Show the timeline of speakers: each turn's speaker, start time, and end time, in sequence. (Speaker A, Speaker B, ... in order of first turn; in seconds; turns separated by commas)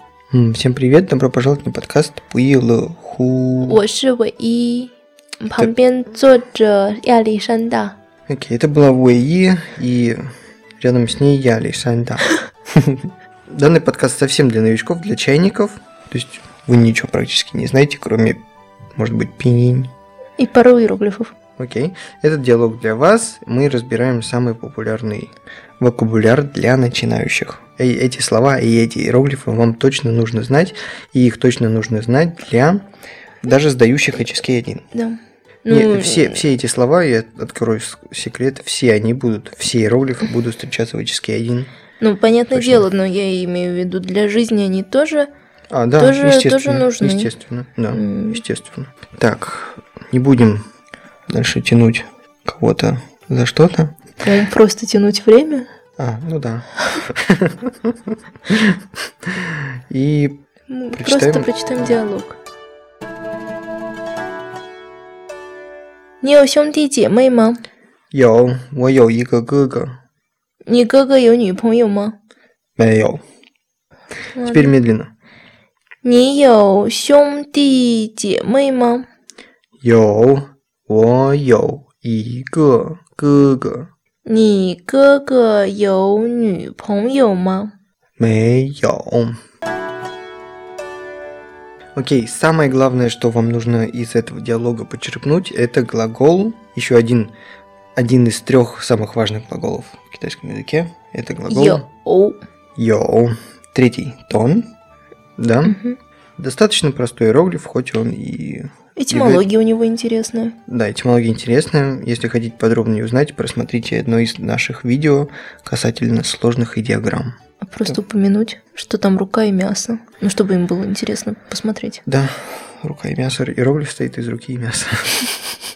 Speaker A: 0.3-3.8, Speaker B: 3.6-8.0, Speaker A: 8.3-10.2, Speaker A: 10.8-18.4, Speaker A: 19.0-19.9, Speaker B: 20.4-21.3, Speaker A: 21.6-32.9, Speaker A: 33.4-34.8, Speaker B: 34.9-36.5, Speaker A: 35.7-41.7, Speaker B: 42.0-45.3, Speaker A: 42.5-42.9, Speaker A: 45.7-50.6, Speaker B: 46.0-47.3, Speaker B: 47.9-48.4, Speaker A: 51.3-54.0, Speaker B: 54.2-55.7, Speaker A: 56.0-58.0, Speaker A: 58.5-60.4, Speaker B: 60.7-62.4, Speaker A: 60.9-61.5, Speaker B: 66.2-67.6, Speaker A: 68.1-70.0, Speaker B: 70.7-72.2, Speaker A: 72.8-73.2, Speaker B: 74.3-74.7, Speaker A: 74.4-75.1, Speaker B: 76.0-79.1, Speaker A: 79.8-83.9, Speaker B: 84.3-87.7, Speaker A: 88.2-89.4, Speaker A: 92.0-97.3, Speaker A: 98.0-101.9, Speaker B: 101.5-102.4, Speaker A: 102.8-104.7, Speaker A: 105.4-105.8, Speaker B: 105.7-106.0, Speaker A: 106.4-109.5, Speaker B: 109.0-110.6, Speaker A: 110.7-117.3, Speaker B: 117.6-122.0, Speaker A: 122.1-125.3